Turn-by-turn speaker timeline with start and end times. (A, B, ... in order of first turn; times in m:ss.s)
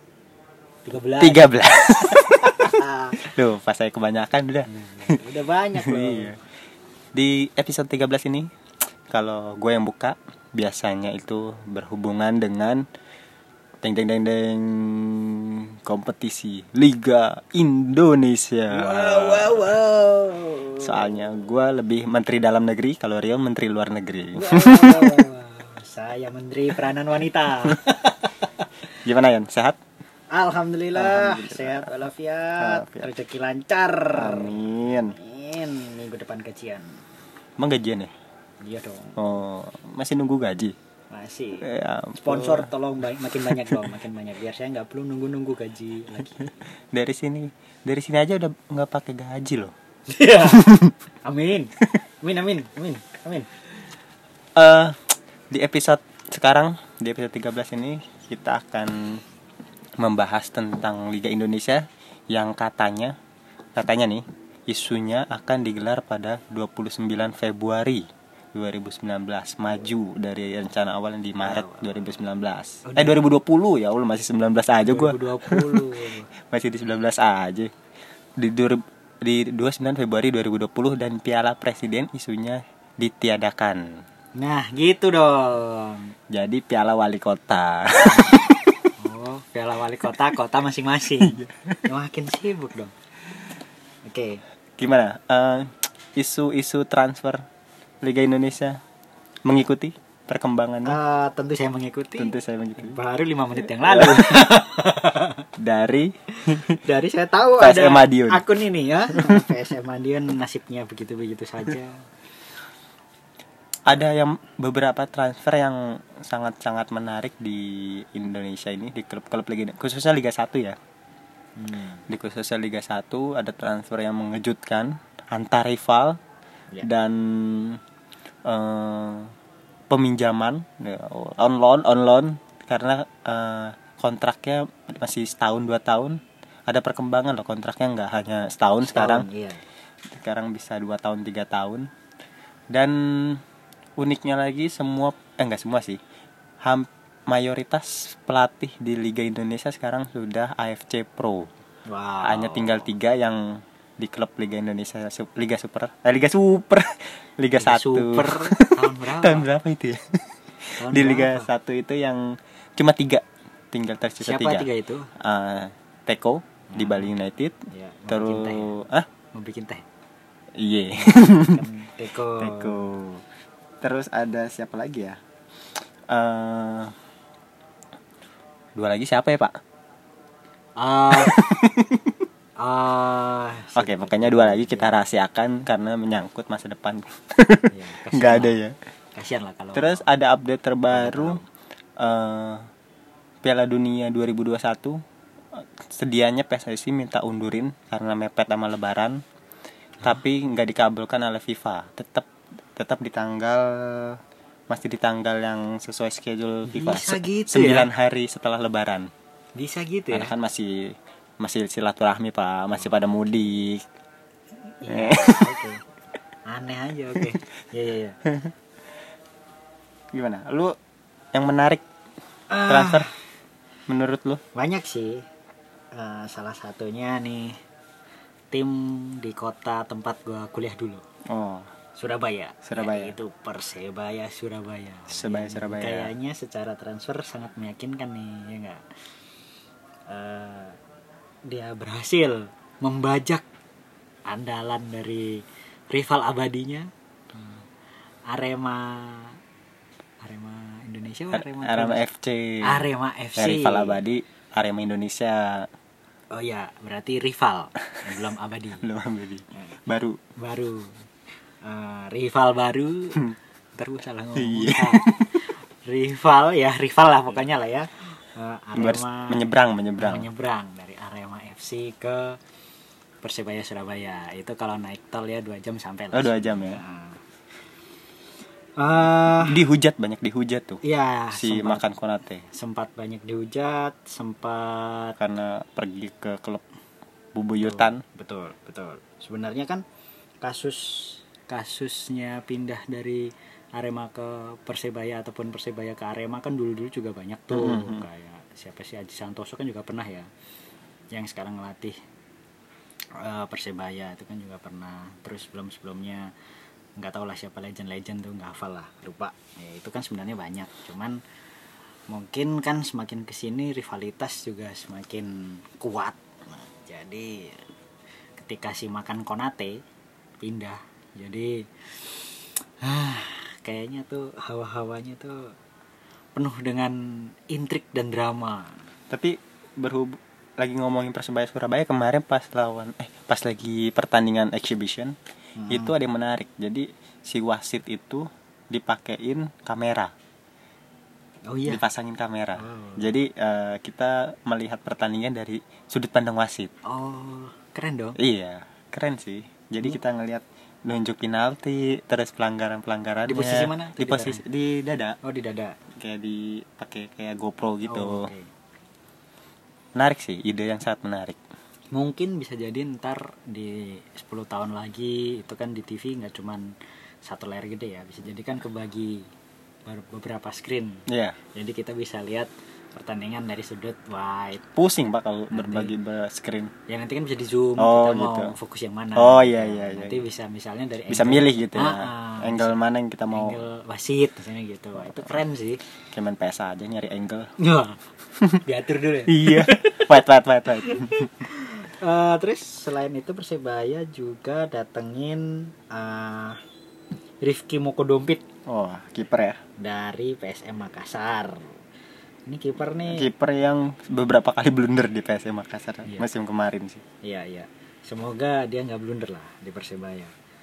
0:00.8-0:03.2 A
0:01.2-0:05.2 B
0:04.7-0:06.3 A
0:05.8-0:06.4 B
0:07.1-0:08.5 B
0:09.1-0:12.8 B
0:13.8-0:19.6 B
0:18.7-0:21.2 A
0:20.8-0:25.3 B
0:24.3-0:28.7 A
0:29.0-0:29.8 B
0:30.3-0:37.0 A
0:31.0-0:31.9 B
0:32.6-0:33.1 B
0:34.1-0:35.2 B
0:37.6-0:38.1 B
0:38.6-0:39.2 A
0:39.2-0:40.7 B
0:41.1-0:46.5 A
0:41.6-0:42.7 B
0:43.5-0:43.8 B
0:46.9-0:49.7 B
0:50.1-0:53.5 A
0:50.5-0:50.9 B
0:54.6-0:59.2 B
1:00.0-1:03.1 B
1:03.8-1:17.7 B
1:11.4-1:12.0 A
1:12.8-1:13.2 A
1:14.8-1:16.3 A
1:18.4-1:24.0 B
1:24.4-1:26.1 A
1:26.3-1:28.9 B
1:28.0-1:32.9 A
1:31.2-1:31.8 B
1:34.0-1:34.4 A
1:34.8-1:37.5 B
1:38.0-1:38.8 B
1:39.4-1:41.0 B
1:40.8-1:45.5 A
1:42.2-1:43.0 B
1:43.8-1:44.5 B
1:45.6-1:46.8 B
1:46.3-1:52.0 A
1:47.6-1:48.4 B
1:49.1-1:49.6 B
1:53.8-2:00.8 B
2:01.6-2:02.0 A
2:02.1-2:06.2 B
2:06.8-2:07.8 B
2:08.4-2:09.3 B
2:09.9-2:19.3 B
2:18.8-2:19.6 A
2:20.1-2:21.9 B
2:22.7-2:23.4 B
2:24.0-2:26.0 B
2:26.6-2:31.5 B
2:31.9-2:32.9 A
2:32.2-2:40.2 B
2:37.5-2:39.5 A
2:40.8-2:41.5 A
2:40.8-2:49.1 B
2:44.2-2:45.1 A
2:46.7-2:47.1 A
2:47.7-2:49.8 A
2:50.6-2:51.6 B
2:51.0-2:52.9 A
2:52.4-2:53.2 B
2:53.8-2:55.2 B
2:56.1-2:56.9 B
2:58.8-2:59.6 B
3:00.8-3:01.5 A
3:01.1-3:02.1 B
3:02.6-3:05.0 A
3:03.8-3:08.7 B
3:07.7-3:08.6 A
3:09.1-3:10.1 A
3:09.7-3:11.4 B
3:10.9-3:11.4 A
3:12.0-3:12.7 B
3:13.4-3:15.0 B
3:15.5-3:19.2 B
3:20.0-3:29.1 B
3:26.6-3:27.9 A
3:29.6-3:30.3 A
3:30.1-3:33.8 B
3:34.7-3:35.8 A
3:34.9-3:35.6 B
3:36.5-3:38.2 A
3:40.1-3:40.7 B
3:41.3-3:41.8 B
3:42.5-3:43.1 A
3:42.6-3:43.1 B
3:43.9-3:44.4 B
3:44.5-3:45.2 A
3:45.9-3:47.6 A
3:48.5-3:51.0 A
3:51.3-3:51.7 B
3:52.0-3:58.8 A
3:52.6-3:53.2 B
3:55.1-3:56.1 B
4:00.1-4:00.8 A
4:01.4-4:03.4 A
4:04.3-4:07.6 A
4:08.3-4:09.4 A
4:10.2-4:12.0 A
4:11.3-4:15.7 B
4:12.6-4:14.0 A
4:16.3-4:18.8 A
4:18.8-4:20.2 B
4:20.4-4:21.0 A
4:21.6-4:29.5 A
4:24.4-4:25.4 B
4:28.8-4:30.3 B
4:30.0-4:32.4 A
4:33.2-4:37.2 A
4:36.1-4:36.8 B
4:38.8-4:39.6 A
4:39.3-4:40.8 B
4:40.8-4:41.8 A
4:41.3-4:42.4 B
4:42.5-4:45.2 A
4:45.2-4:46.6 B
4:47.3-4:48.0 B
4:47.6-4:49.8 A
4:50.4-5:00.3 A
4:57.5-4:58.0 B
5:01.1-5:02.0 A
5:03.2-5:06.3 A
5:07.0-5:11.2 A
5:12.1-5:17.6 A
5:18.4-5:19.8 A
5:20.4-5:25.5 A
5:26.4-5:28.8 A
5:29.1-5:35.2 B
5:35.6-5:35.9 A
5:35.7-5:40.1 B
5:41.5-5:41.8 A
5:41.7-5:46.7 B
5:42.6-5:43.1 A
5:46.8-5:48.2 A
5:48.2-5:55.2 B
5:53.3-5:54.4 A
5:55.2-5:55.8 A
5:55.9-5:58.3 B
5:57.8-5:58.5 A
6:00.0-6:01.4 B
6:01.9-6:09.3 A
6:09.8-6:14.6 A
6:11.1-6:11.4 B
6:14.7-6:16.7 B
6:15.5-6:15.9 A
6:16.9-6:22.8 A
6:17.8-6:18.5 B
6:19.2-6:20.2 B
6:21.1-6:23.6 B
6:23.3-6:25.8 A
6:26.1-6:27.5 B
6:27.6-6:28.0 A
6:28.6-6:30.2 A
6:29.3-6:31.3 B
6:30.8-6:36.6 A
6:37.4-6:38.4 A
6:38.6-6:39.6 B
6:39.8-6:41.8 A
6:42.5-6:43.3 A
6:43.1-6:47.0 B
6:47.2-6:50.3 A